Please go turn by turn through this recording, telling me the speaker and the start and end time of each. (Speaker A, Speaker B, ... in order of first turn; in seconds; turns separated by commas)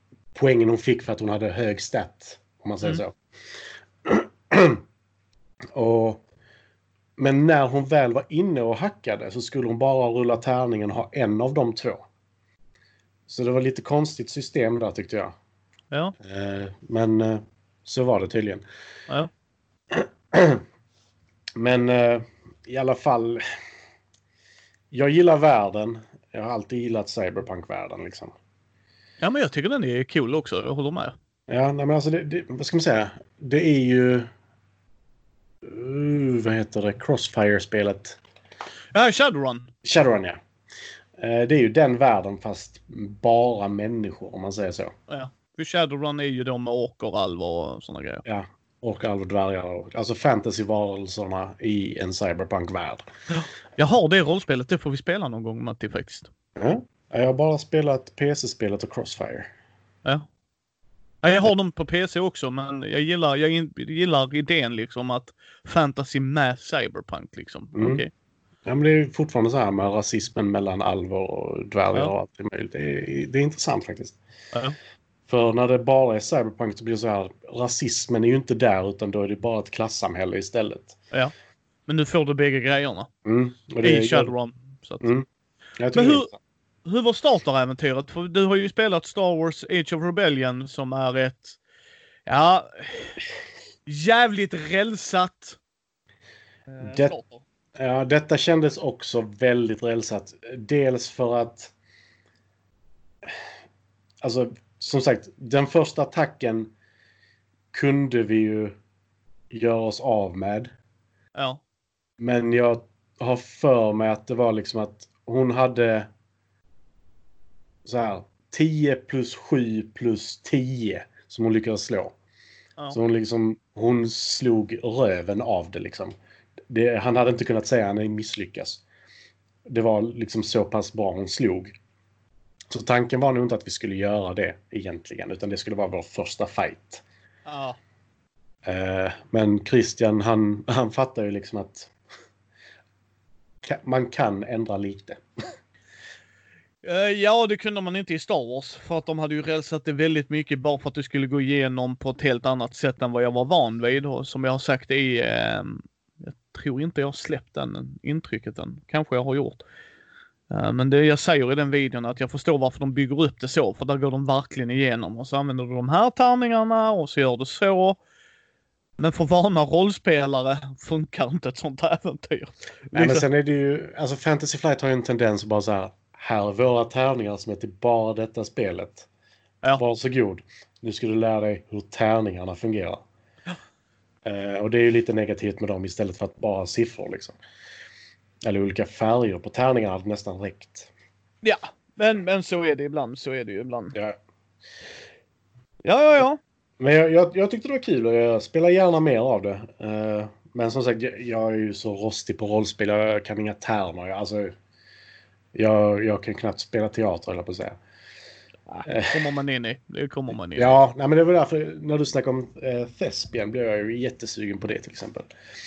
Speaker A: 0.3-3.2, Speaker A: 4.0-4.8, Speaker A: 5.7-6.2, Speaker A: 7.2-12.0, Speaker A: 13.3-15.3, Speaker A: 16.2-18.6, Speaker A: 19.9-20.6, Speaker A: 21.6-23.4, Speaker A: 24.9-28.4, Speaker B: 29.2-31.1, Speaker A: 31.5-34.3, Speaker A: 35.6-38.2, Speaker B: 38.9-39.7, Speaker A: 39.8-40.4, Speaker A: 41.2-44.9, Speaker B: 45.1-48.2, Speaker A: 48.3-53.0, Speaker B: 53.3-56.3, Speaker A: 56.6-59.5, Speaker B: 61.2-68.1, Speaker A: 67.8-68.0, Speaker A: 68.7-74.2, Speaker A: 75.3-81.0, Speaker B: 81.9-83.1, Speaker A: 83.2-84.3, Speaker B: 83.8-85.1, Speaker A: 85.0-85.3, Speaker A: 85.8-86.4, Speaker B: 85.9-86.3, Speaker B: 86.8-91.6, Speaker B: 92.3-93.2, Speaker B: 93.9-95.6, Speaker B: 96.7-97.4, Speaker A: 96.8-97.2, Speaker A: 97.8-101.7, Speaker A: 104.2-106.7, Speaker A: 107.7-108.7, Speaker A: 109.5-110.7, Speaker B: 111.3-111.6, Speaker A: 112.2-116.1, Speaker A: 117.8-122.2, Speaker A: 122.9-126.2, Speaker A: 126.7-128.8, Speaker A: 129.7-131.7, Speaker A: 132.7-137.0, Speaker B: 137.5-137.8, Speaker A: 138.7-141.9, Speaker A: 143.7-145.2, Speaker B: 146.8-159.6, Speaker B: 160.5-168.0, Speaker B: 169.0-173.2, Speaker A: 172.9-179.1, Speaker A: 179.8-183.0, Speaker A: 184.2-187.4, Speaker A: 188.4-190.9, Speaker B: 191.4-194.0, Speaker B: 195.8-196.4, Speaker A: 196.8-204.5, Speaker A: 205.5-207.8, Speaker B: 208.7-210.7, Speaker A: 208.8-209.2, Speaker A: 210.6-215.3